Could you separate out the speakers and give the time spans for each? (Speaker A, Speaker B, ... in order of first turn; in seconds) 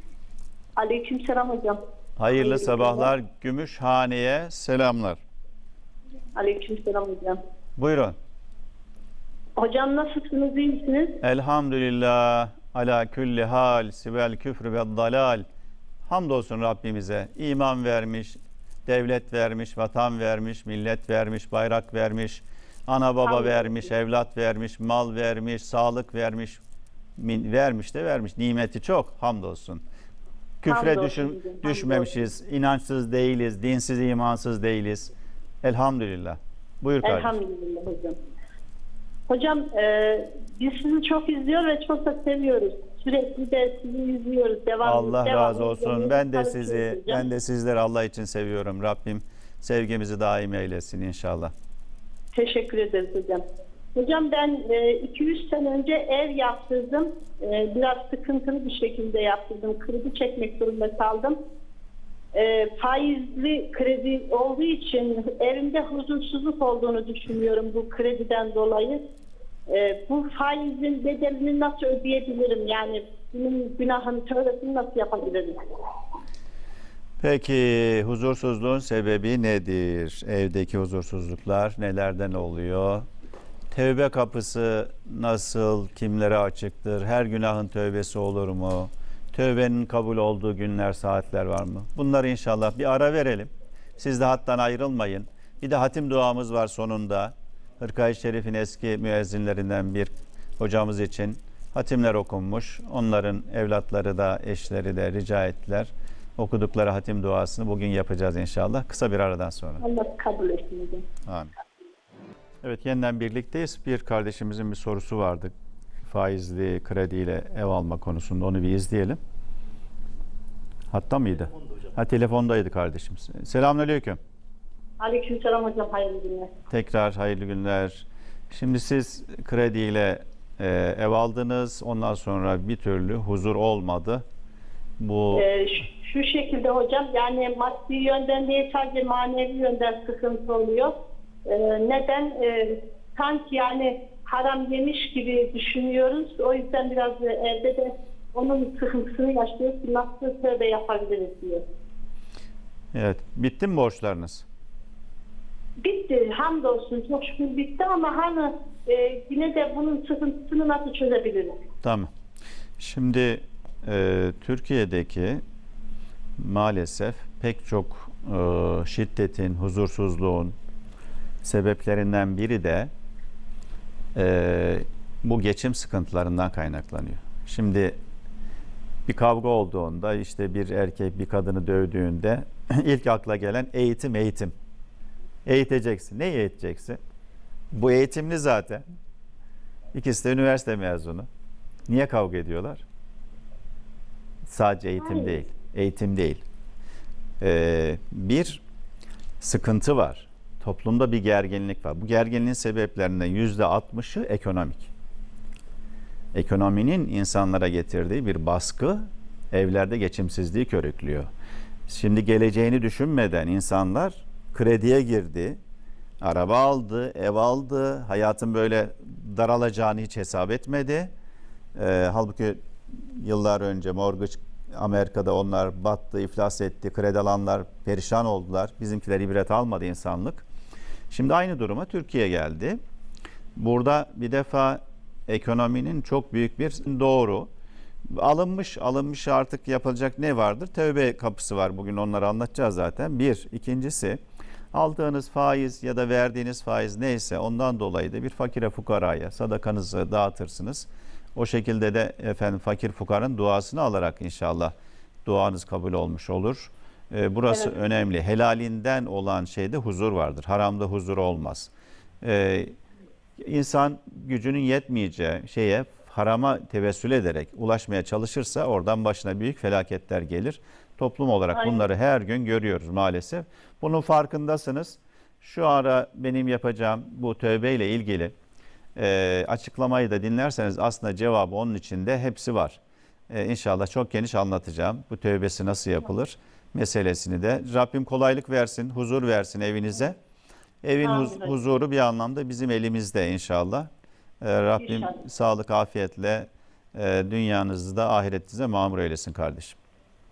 Speaker A: 0.8-1.8, 2.3-3.1, 6.3-7.4, 9.6-11.2, 23.2-23.9, 30.7-32.3, 37.0-38.2, 39.3-47.2, 52.3-53.4, 53.9-61.4, 62.3-69.0, 69.7-75.6, 109.8-111.0, 125.0-126.5, 135.3-140.9, 141.4-151.6, 155.8-161.6, 195.0-195.3, 271.5-271.8, 291.0-291.6, 294.8-295.2
Speaker B: 2.2-5.2, 7.8-8.2, 11.2-15.4, 16.0-26.6, 27.2-29.8, 30.6-35.1, 35.6-37.4, 44.8-51.5, 77.2-83.0, 83.7-109.8, 111.2-111.5, 112.6-115.5, 116.0-119.2, 120.9-124.2, 126.7-134.2, 135.0-135.5, 152.9-154.4, 161.8-162.1, 162.8-165.4, 166.4-170.5, 171.4-172.9, 174.1-178.0, 179.1-184.5, 185.4-187.0, 187.7-188.8, 189.9-191.3, 191.9-192.8, 194.4-196.4, 197.4-198.6, 199.4-204.9, 206.3-211.3, 211.9-215.6, 216.2-221.1, 221.7-230.4, 231.1-232.8, 233.6-237.5, 238.1-244.2, 244.7-254.7, 255.2-261.7, 262.2-262.8, 263.4-278.3, 278.9-290.2, 290.8-293.9, 294.4-299.8